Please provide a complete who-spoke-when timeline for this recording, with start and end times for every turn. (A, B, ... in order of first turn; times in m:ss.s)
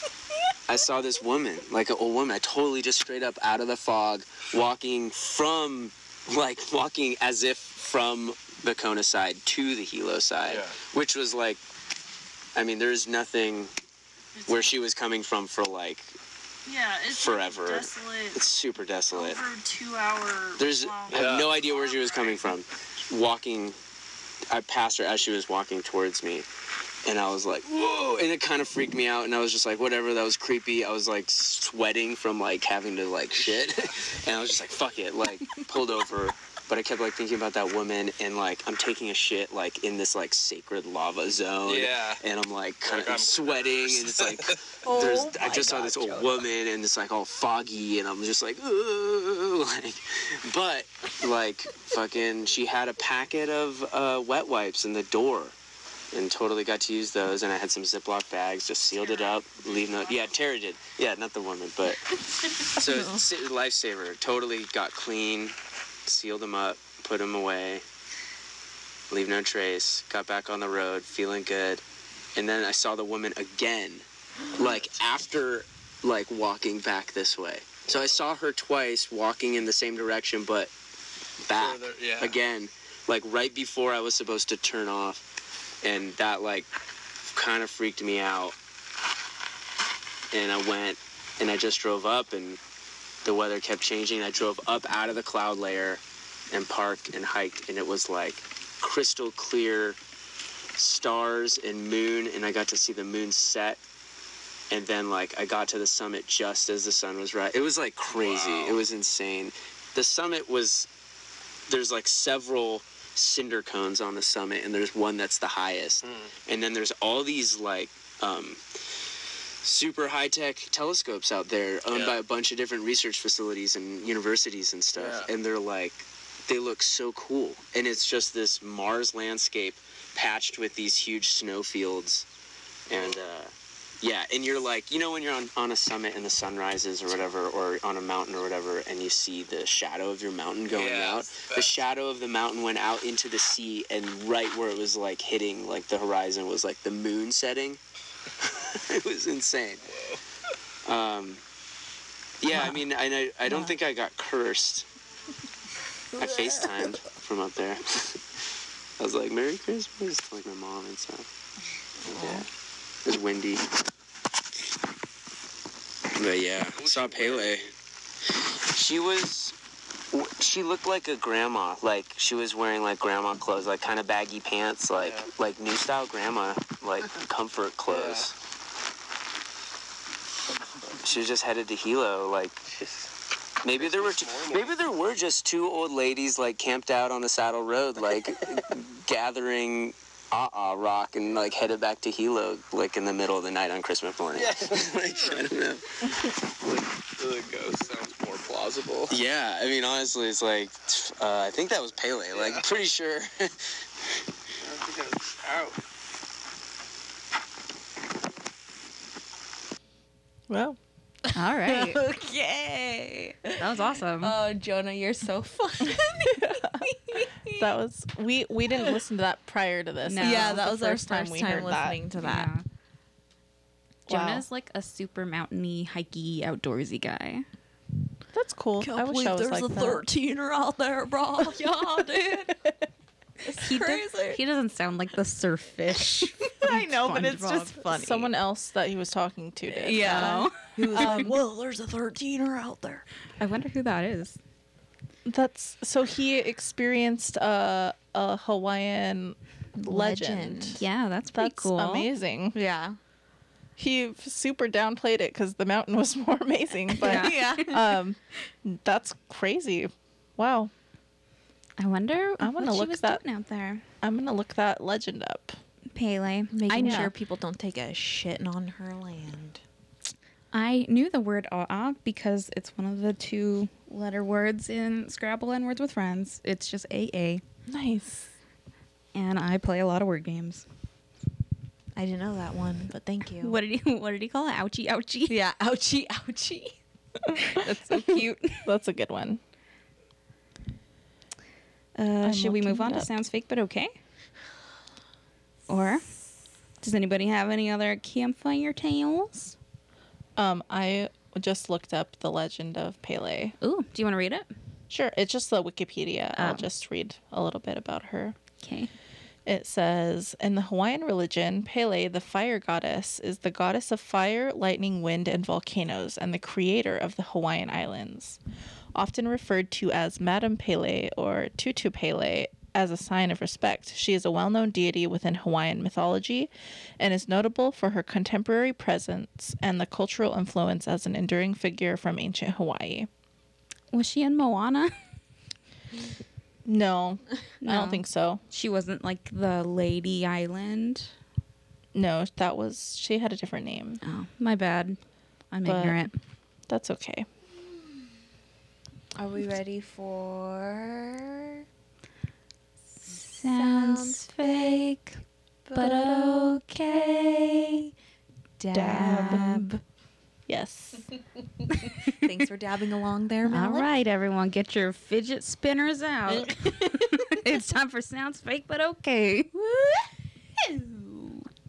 0:00.7-0:11.6 A
0:10.4-0:10.8 B
0:12.6-0:13.7 A
0:14.4-0:14.8 C
0:14.5-0:16.2 A
0:16.7-0:18.5 C
0:17.1-0:19.4 A
0:19.1-0:22.6 C
0:20.6-0:23.8 A
0:21.1-0:21.5 B
0:24.5-0:26.5 A
0:27.0-0:55.6 A
0:27.7-0:28.1 B
0:33.4-0:33.7 B
0:41.6-0:42.2 B
0:42.8-0:45.2 B
0:44.8-0:46.4 D
0:56.1-1:05.6 A
0:58.9-1:00.4 C
1:02.8-1:03.2 D
1:06.1-1:07.8 A
1:09.1-1:11.8 A
1:12.4-1:20.7 A
1:21.4-1:25.3 A
1:21.5-1:22.4 B
1:25.8-1:26.7 A
1:27.3-1:28.6 A
1:30.3-1:32.6 A
1:33.2-1:40.0 A
1:40.8-1:43.8 A
1:44.7-1:50.9 A
1:48.1-1:48.8 B
1:51.7-1:58.6 A
1:56.0-1:56.3 B
1:59.6-2:12.3 A
2:01.9-2:02.2 B
2:05.0-2:05.3 B
2:12.9-2:27.8 A
2:12.9-2:13.2 B
2:20.7-2:21.7 B
2:28.4-2:29.9 A
2:29.9-2:30.2 B
2:30.8-2:31.4 A
2:32.4-2:34.9 A
2:32.5-2:32.8 D
2:33.4-2:33.8 D
2:36.2-2:36.9 D
2:36.2-2:38.2 A
2:39.0-2:41.3 A
2:42.1-2:42.5 D
2:42.1-2:42.5 A
2:43.0-2:43.7 A
2:46.2-2:47.7 A
2:46.8-2:47.6 B
2:48.7-2:49.6 A
2:50.1-2:58.4 A
2:55.0-2:55.3 B
2:57.9-2:58.3 B
3:01.0-3:02.7 A
3:02.7-3:03.1 B
3:03.6-3:15.9 A
3:03.7-3:04.8 B
3:14.4-3:19.2 B
3:19.1-3:23.8 A
3:22.3-3:22.7 B
3:24.6-3:25.8 B
3:30.5-3:30.8 E
3:31.4-3:32.0 F
3:31.6-3:37.7 D
3:33.6-3:34.4 F
3:35.9-3:36.8 E
3:37.5-3:42.0 E
3:40.0-3:40.7 F
3:40.2-3:42.5 D
3:42.2-3:42.6 F
3:44.1-3:44.4 E
3:44.1-3:47.5 F
3:48.3-3:50.1 E
3:48.8-3:52.6 D
3:53.4-3:54.4 D
3:53.6-3:57.8 F
3:56.1-3:58.3 D
3:57.9-4:01.4 E
3:59.7-4:03.1 D
3:59.9-4:01.3 F
4:03.4-4:04.4 F
4:05.2-4:12.6 E
4:09.8-4:10.8 D
4:10.8-4:12.1 F
4:12.5-4:13.0 D
4:13.8-4:20.7 E
4:16.9-4:17.8 D
4:17.0-4:17.8 F
4:21.8-4:23.8 F
4:22.4-4:23.2 E
4:24.0-4:25.6 E
4:25.9-4:27.1 F
4:26.5-4:29.6 D
4:26.7-4:27.1 E
4:30.5-4:37.4 F
4:37.7-4:38.3 E
4:39.2-4:40.6 F
4:42.0-4:43.6 D
4:43.4-4:45.4 F
4:45.3-4:46.8 D
4:47.3-4:49.4 E
4:47.5-4:48.7 F
4:52.0-4:53.9 F
4:52.2-4:53.2 E
4:55.7-4:56.0 F
4:56.8-4:59.6 F
5:00.4-5:03.6 E
5:03.6-5:04.5 F
5:04.9-5:08.4 E
5:06.4-5:06.7 F
5:08.6-5:08.9 F
5:09.5-5:18.4 E
5:18.9-5:33.1 E
5:33.9-5:34.9 F
5:36.6-5:38.4 E
5:37.6-5:41.1 F
5:41.9-5:44.0 E
5:44.0-5:45.0 F
5:45.5-5:46.2 F
5:45.6-5:46.0 E
5:46.7-5:47.3 E
5:49.2-5:51.6 D
5:53.1-5:55.0 D
5:53.1-5:55.2 F
5:55.7-5:57.9 D
5:55.8-5:56.9 F
5:58.6-5:59.8 D
5:58.7-5:59.7 E
5:58.8-5:59.6 F
6:00.5-6:01.1 E
6:02.1-6:03.9 D
6:03.4-6:09.5 F
6:06.3-6:07.6 D
6:09.5-6:11.4 D